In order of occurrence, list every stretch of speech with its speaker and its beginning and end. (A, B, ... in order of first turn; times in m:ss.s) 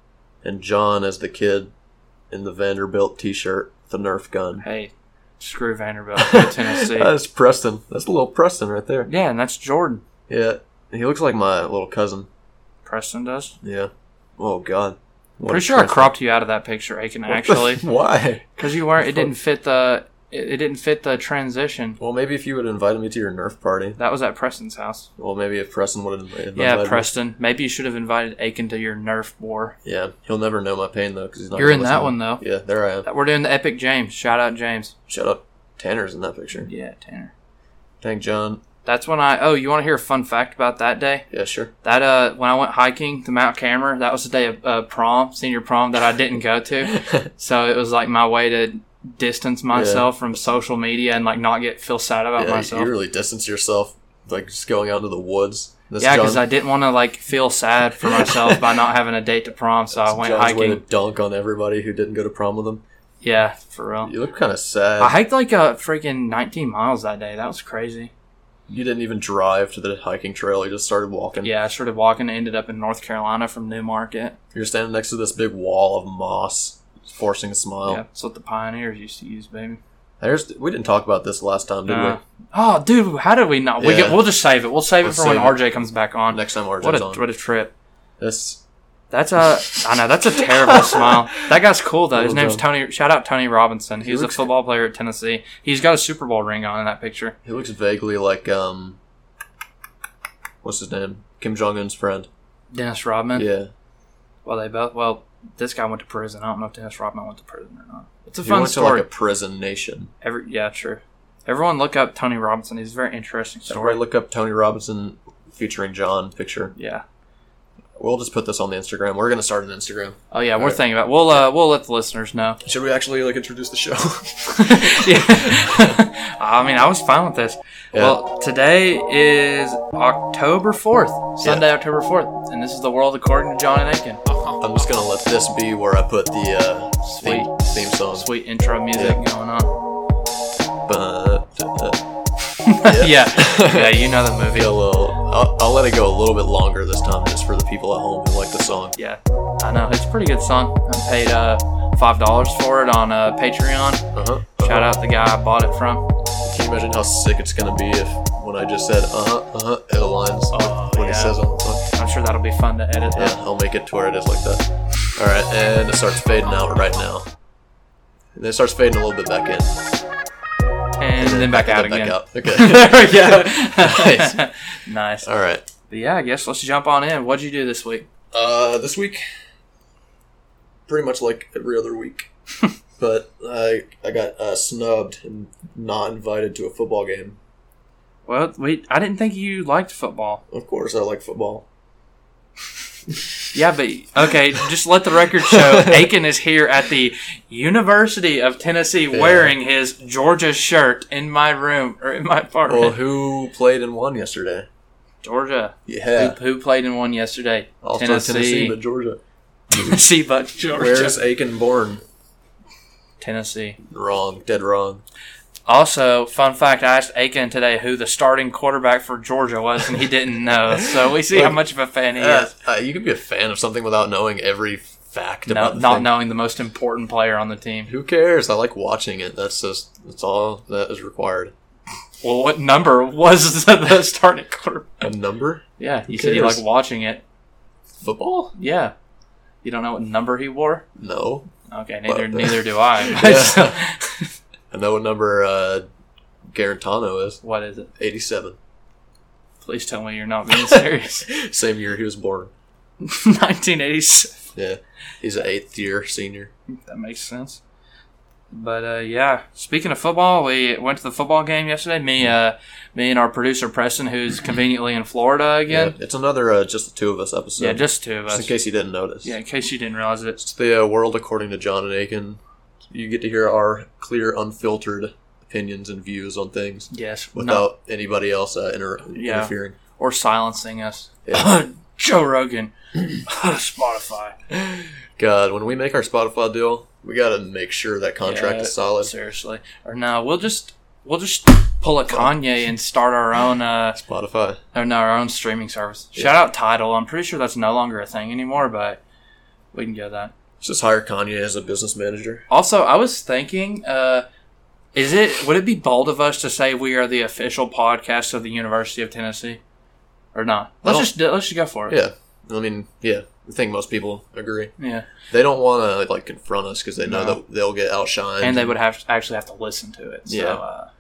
0:00.4-0:01.7 A
0:02.3-0:04.6 A
0:04.6-0:07.1 B
0:06.2-0:09.1 A
0:09.1-0:10.0 B
0:10.3-0:12.3 A
0:12.8-0:13.6 B
0:13.6-0:16.1 A
0:15.5-0:17.8 B
0:17.3-0:19.3 A
0:18.6-0:22.0 B
0:22.0-0:24.0 A
0:24.0-0:25.1 B
0:25.2-0:27.1 A
0:26.6-0:29.8 B
0:29.8-0:33.1 A
0:31.6-0:32.4 B
0:33.0-0:34.9 B
0:35.1-0:36.7 A
0:36.7-0:37.3 B
0:38.0-0:38.6 A
0:38.8-0:41.3 B
0:41.3-0:41.7 A
0:41.8-0:52.9 B
0:46.8-0:47.3 A
0:49.7-0:50.1 A
0:52.4-0:56.4 A
0:56.0-1:00.8 B
0:58.2-0:58.6 A
0:59.9-1:02.8 A
1:03.2-1:04.1 B
1:04.0-1:05.2 A
1:05.0-1:08.1 B
1:08.7-1:11.5 A
1:11.4-1:14.4 B
1:14.5-1:18.0 A
1:17.9-1:19.8 B
1:20.2-1:22.2 A
1:21.9-1:27.7 B
1:23.8-1:24.2 A
1:25.0-1:25.6 A
1:26.3-1:27.2 A
1:28.2-1:28.6 A
1:29.1-1:37.4 B
1:29.7-1:31.4 A
1:32.1-1:32.6 A
1:34.0-1:34.5 A
1:37.4-1:39.0 A
1:40.6-1:42.3 A
1:42.7-1:43.5 B
1:43.4-1:43.7 A
1:44.4-1:49.1 B
1:48.4-1:50.1 A
1:50.2-1:54.0 B
1:53.7-1:56.7 A
1:56.8-1:57.0 B
1:58.0-2:00.8 A
2:00.3-2:02.6 B
2:02.6-2:06.0 A
2:04.6-2:14.6 B
2:07.9-2:08.2 A
2:11.4-2:11.7 A
2:14.6-2:18.3 A
2:17.0-2:19.7 B
2:18.9-2:19.2 A
2:20.9-2:22.0 A
2:22.7-2:24.7 B
2:22.8-2:29.0 A
2:29.0-2:36.0 B
2:34.1-2:34.9 A
2:36.4-2:41.9 A
2:40.5-2:43.4 B
2:43.2-2:47.3 A
2:48.4-2:49.8 A
2:51.0-2:55.3 B
2:51.2-2:54.4 A
2:55.2-2:55.6 A
2:55.9-2:58.1 B
2:58.3-2:59.2 A
3:00.9-3:02.3 A
3:03.0-3:07.4 A
3:08.3-3:10.4 B
3:10.5-3:11.6 A
3:13.5-3:23.0 B
3:15.5-3:16.0 A
3:19.1-3:19.5 A
3:22.7-3:24.7 A
3:25.2-3:28.8 B
3:25.9-3:26.4 A
3:27.8-3:29.2 A
3:29.7-3:31.2 B
3:29.7-3:30.0 A
3:30.8-3:32.0 A
3:33.2-3:33.8 B
3:33.8-3:35.0 A
3:35.7-3:42.5 B
3:40.7-3:41.6 A
3:42.2-3:46.1 A
3:45.5-3:47.9 B
3:47.9-3:51.5 A
3:52.2-3:55.1 B
3:55.0-3:56.6 A
3:55.8-3:57.2 B
3:58.0-3:58.5 A
3:58.6-3:58.9 B
3:59.6-4:00.8 B
4:01.0-4:01.5 A
4:01.7-4:04.3 B
4:02.1-4:03.8 A
4:04.7-4:05.9 A
4:06.5-4:07.4 A
4:07.4-4:07.9 B
4:08.0-4:08.6 A
4:09.6-4:11.3 B
4:10.5-4:12.5 A
4:13.0-4:14.5 B
4:14.6-4:16.5 A
4:16.7-4:17.6 B
4:18.5-4:26.0 B
4:25.7-4:29.3 A
4:27.6-4:28.5 B
4:29.2-4:30.4 B
4:30.4-4:39.8 A
4:36.9-4:37.7 B
4:39.2-4:44.4 B
4:44.5-4:49.1 A
4:48.2-4:54.0 B
4:54.0-4:54.6 A
4:54.7-4:59.0 B
4:59.7-5:00.3 B
5:00.6-5:02.5 A
5:02.5-5:04.3 B
5:04.9-5:09.6 B
5:10.3-5:12.0 B
5:10.8-5:11.1 A
5:11.9-5:14.7 A
5:14.8-5:15.1 B
5:15.3-5:18.8 A
5:17.0-5:17.4 B
5:18.4-5:20.9 B
5:20.3-5:20.6 A